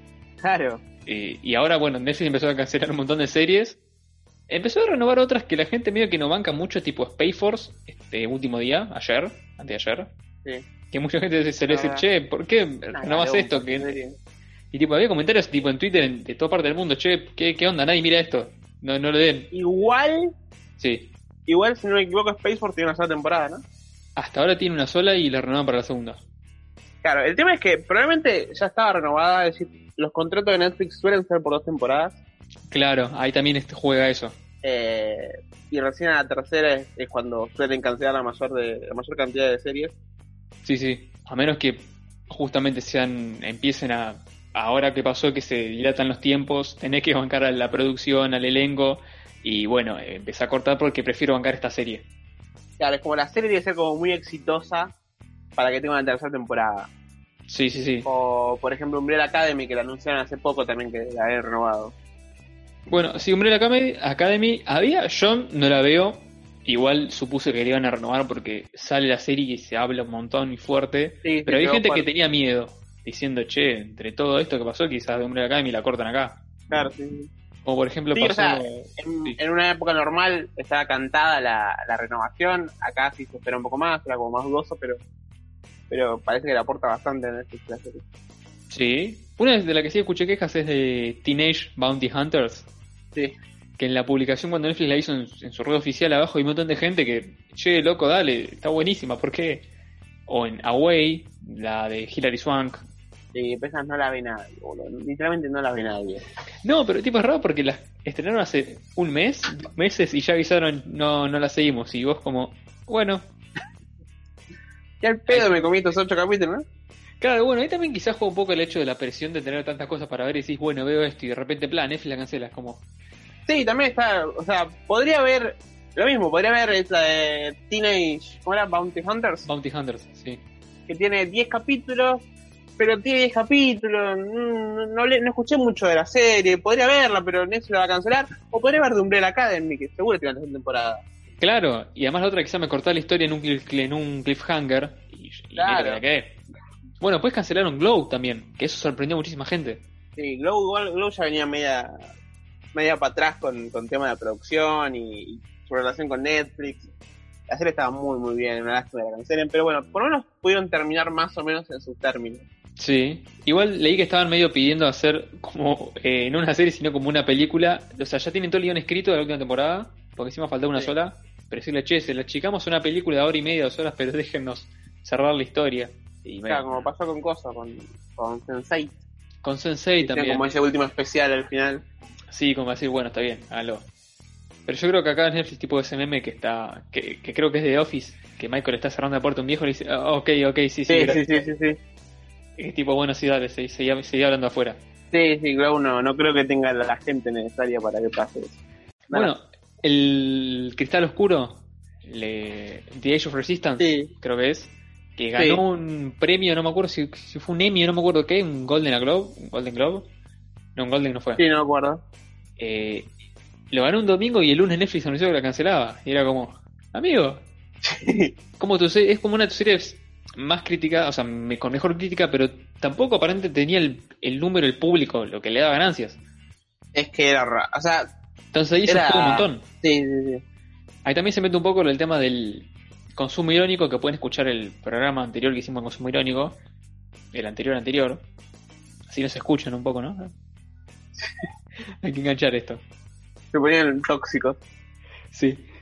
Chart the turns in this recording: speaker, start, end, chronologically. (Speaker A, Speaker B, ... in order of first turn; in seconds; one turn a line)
Speaker A: 0.4-0.8
Speaker B: 1.1-3.8
Speaker B: 4.5-10.1
Speaker B: 10.9-14.0
Speaker A: 11.7-12.1
Speaker A: 12.9-14.2
Speaker B: 14.7-19.5
Speaker A: 19.5-20.3
Speaker B: 20.8-21.1
Speaker A: 21.5-23.6
Speaker B: 24.2-26.2
Speaker A: 27.0-32.2
Speaker B: 32.7-34.4
Speaker A: 34.6-39.9
Speaker B: 40.6-52.0
Speaker A: 52.8-54.9
Speaker A: 55.6-56.9
Speaker B: 57.5-58.1
Speaker A: 58.1-61.9
Speaker B: 62.9-76.4
Speaker A: 71.2-72.0
Speaker A: 76.7-77.3
Speaker B: 77.7-79.4
Speaker A: 78.1-85.0
Speaker A: 85.9-88.0
Speaker B: 88.7-92.7
Speaker B: 93.8-99.7
Speaker B: 100.3-102.8
Speaker A: 103.3-106.2
Speaker B: 106.6-113.3
Speaker A: 115.0-116.6
Speaker B: 115.3-115.5
Speaker B: 117.2-122.8
Speaker A: 123.5-129.5
Speaker B: 129.5-130.4
Speaker A: 130.9-132.3
Speaker A: 132.8-141.0
Speaker B: 141.4-146.4
Speaker A: 145.6-146.0
Speaker B: 147.0-149.8
Speaker A: 150.2-152.0
Speaker A: 152.7-156.9
Speaker A: 157.5-162.4
Speaker B: 162.8-176.9
Speaker A: 176.5-179.0
Speaker B: 179.4-180.5
Speaker A: 180.0-181.8
Speaker B: 182.3-183.9
Speaker B: 184.7-191.2
Speaker A: 190.9-191.8
Speaker B: 192.6-194.8
Speaker A: 195.1-198.6
Speaker B: 199.1-210.1
Speaker A: 203.8-204.1
Speaker B: 210.8-211.4
Speaker A: 211.4-212.0
Speaker B: 212.6-213.1
Speaker B: 213.7-217.4
Speaker A: 217.8-218.3
Speaker B: 218.6-226.2
Speaker A: 226.9-228.1
Speaker B: 228.5-229.7
Speaker A: 228.9-230.4
Speaker B: 231.1-236.6
Speaker B: 237.3-238.2
Speaker B: 239.1-240.3
Speaker B: 242.0-242.8
Speaker A: 243.5-244.6
Speaker B: 245.3-245.7